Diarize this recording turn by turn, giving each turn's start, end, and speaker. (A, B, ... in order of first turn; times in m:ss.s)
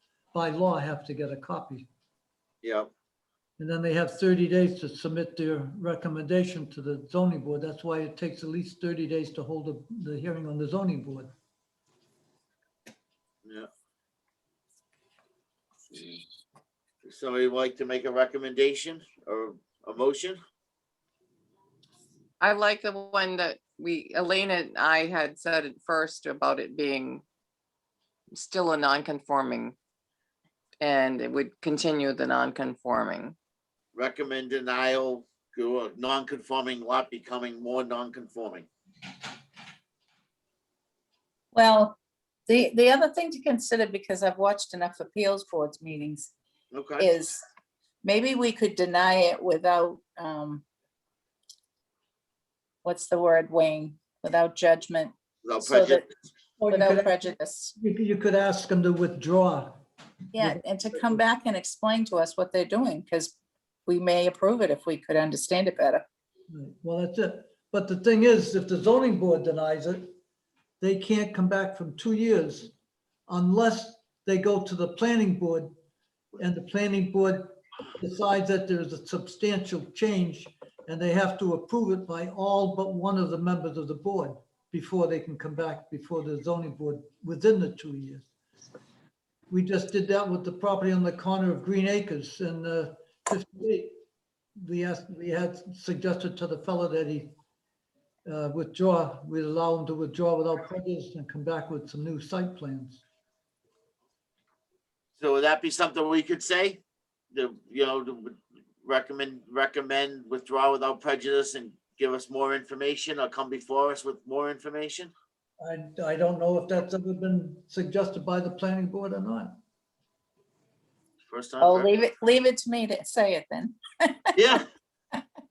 0:00.3-0:01.9 A
0:02.6-0:02.9 B
0:03.6-0:11.3 A
0:17.0-0:20.4 B
0:22.4-0:27.2 C
0:28.3-0:29.8 C
0:30.8-0:33.4 C
0:33.9-0:38.6 B
0:41.5-0:46.3 D
0:46.7-0:47.1 B
0:47.0-0:47.4 D
0:48.0-0:50.6 D
0:52.8-0:56.1 D
0:55.4-0:56.0 B
0:56.6-0:59.8 A
0:56.7-0:57.7 D
1:00.3-1:03.4 D
1:00.4-1:01.2 A
1:03.9-1:06.0 D
1:06.5-1:10.1 A
1:10.8-1:12.7 A
1:13.3-1:15.7 A
1:16.4-1:28.3 A
1:29.5-1:33.9 A
1:34.6-1:37.3 A
1:38.2-1:43.0 A
1:45.2-1:46.8 B
1:47.3-1:55.1 B
1:55.6-1:59.5 A
2:01.3-2:01.9 B
2:01.6-2:04.6 D
2:04.4-2:04.6 B